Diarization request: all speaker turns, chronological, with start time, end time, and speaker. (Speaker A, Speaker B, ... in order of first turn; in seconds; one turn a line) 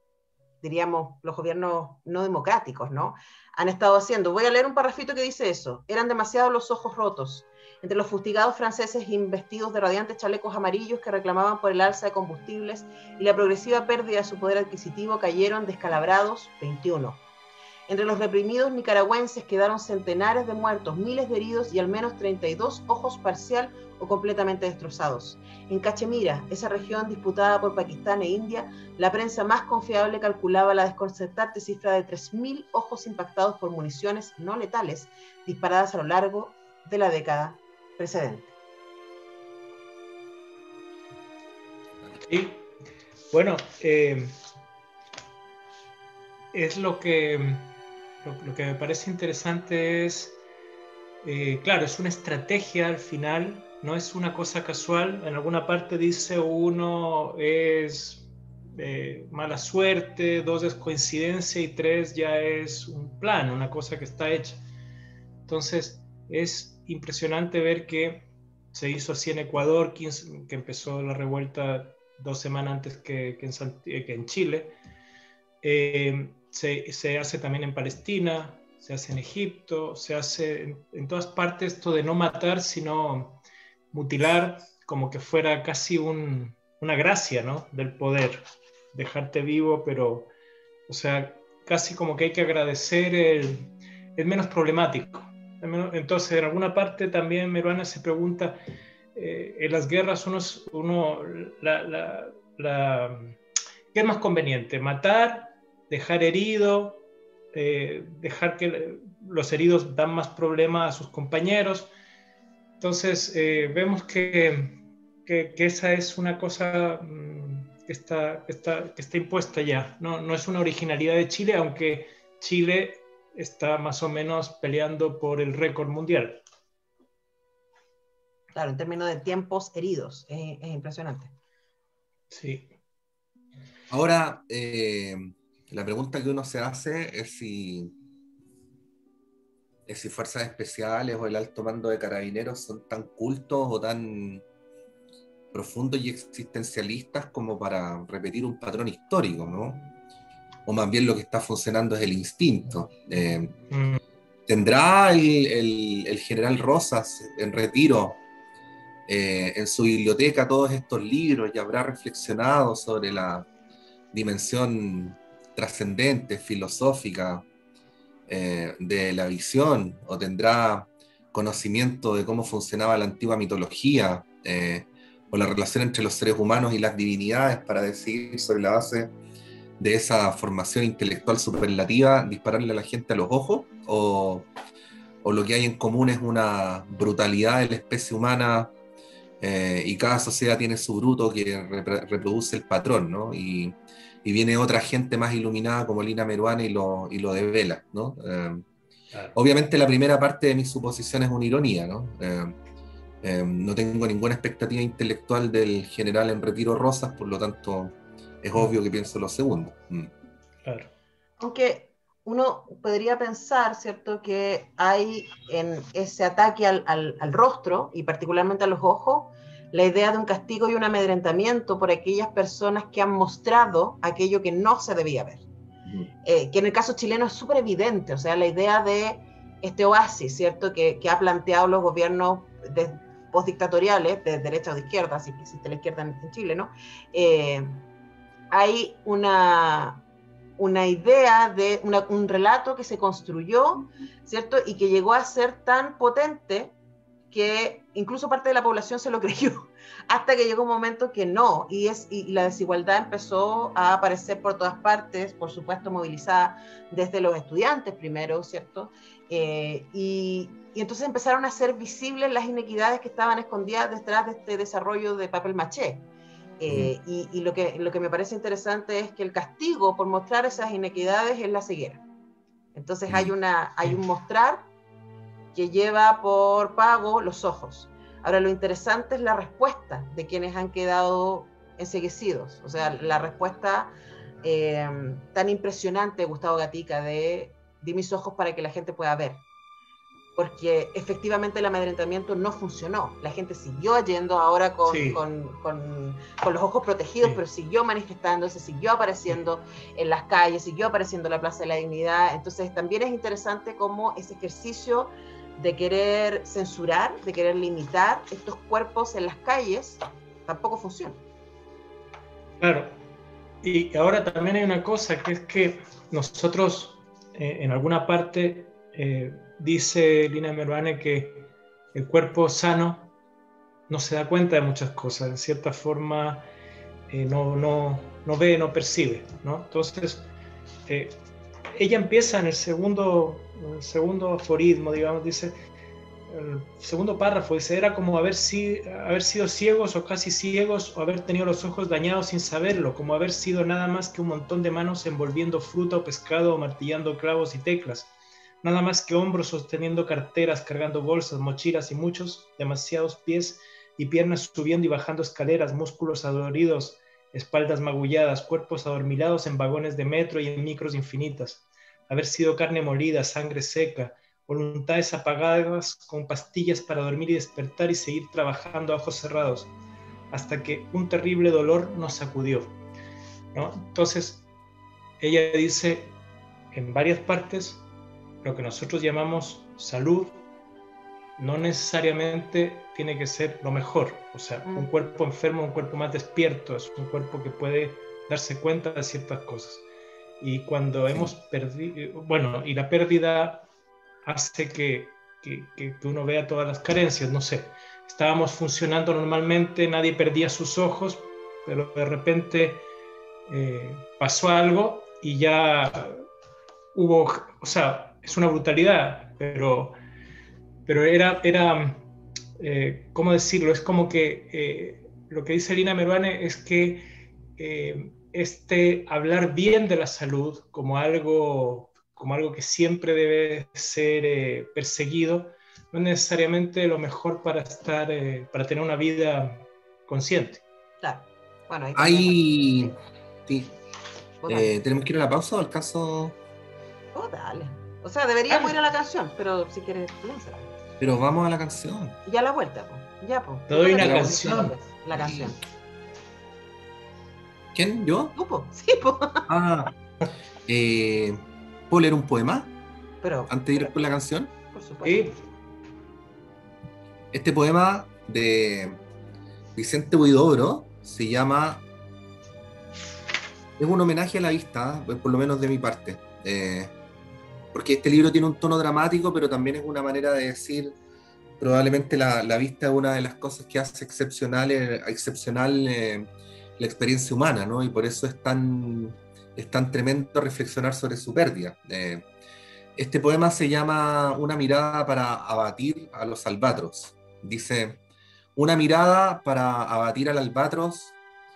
Speaker A: 0.6-17.2
Speaker A: 17.9-38.6
Speaker B: 42.3-42.6
Speaker B: 43.3-44.3
Speaker B: 46.5-50.4
Speaker B: 51.2-64.6
Speaker B: 65.5-74.8
Speaker B: 75.6-83.4
Speaker B: 83.9-88.4
Speaker B: 88.9-90.3
Speaker B: 90.9-98.6
Speaker B: 99.2-103.4
Speaker B: 103.9-111.9
Speaker B: 112.8-126.4
Speaker A: 128.6-131.3
Speaker B: 132.3-132.7
Speaker C: 133.9-137.9
Speaker C: 139.9-144.4
Speaker C: 145.5-149.8
Speaker C: 150.7-153.6
Speaker B: 153.7-154.0
Speaker C: 154.5-158.2
Speaker C: 159.1-163.5
Speaker C: 164.1-167.4
Speaker C: 168.3-179.1
Speaker C: 179.8-184.5
Speaker C: 185.2-188.7
Speaker C: 189.4-198.7
Speaker C: 199.3-202.6
Speaker C: 203.2-210.1
Speaker B: 210.7-210.9
Speaker A: 211.4-225.4
Speaker A: 226.2-237.8
Speaker A: 238.5-240.0
Speaker A: 240.6-246.8
Speaker A: 247.3-266.1
Speaker A: 266.6-272.0
Speaker A: 272.8-274.7
Speaker A: 275.6-289.4
Speaker A: 290.4-311.2
Speaker B: 294.9-295.2
Speaker B: 312.6-313.0
Speaker B: 313.6-323.1
Speaker B: 323.9-326.5
Speaker B: 327.1-330.3
Speaker B: 330.9-331.2
Speaker B: 331.7-335.6
Speaker B: 336.3-369.7
Speaker B: 370.3-372.8
Speaker B: 373.5-374.5
Speaker B: 375.2-376.2
Speaker B: 376.7-377.9
Speaker B: 378.4-380.4
Speaker B: 381.4-389.9
Speaker B: 390.4-393.7
Speaker B: 394.2-402.9
Speaker B: 403.5-406.2
Speaker B: 406.9-410.0
Speaker B: 410.9-412.1
Speaker B: 412.6-417.1
Speaker B: 417.6-430.6
Speaker A: 431.0-433.0
Speaker C: 431.9-432.9
Speaker C: 433.5-433.7
Speaker A: 434.4-434.7
Speaker C: 434.5-436.4
Speaker A: 437.1-440.7
Speaker C: 441.0-442.2
Speaker A: 442.3-445.6
Speaker B: 443.7-444.8
Speaker C: 444.0-445.5
Speaker C: 447.7-448.4
Speaker A: 448.4-449.5
Speaker C: 449.5-449.9
Speaker C: 450.7-452.7
Speaker A: 453.2-453.9
Speaker C: 453.5-454.5
Speaker A: 454.7-455.3
Speaker B: 455.0-455.4
Speaker C: 457.3-459.0
Speaker C: 459.8-461.9
Speaker C: 463.8-466.9
Speaker C: 467.7-470.9
Speaker C: 471.6-482.3
Speaker C: 483.0-488.0
Speaker C: 488.6-491.1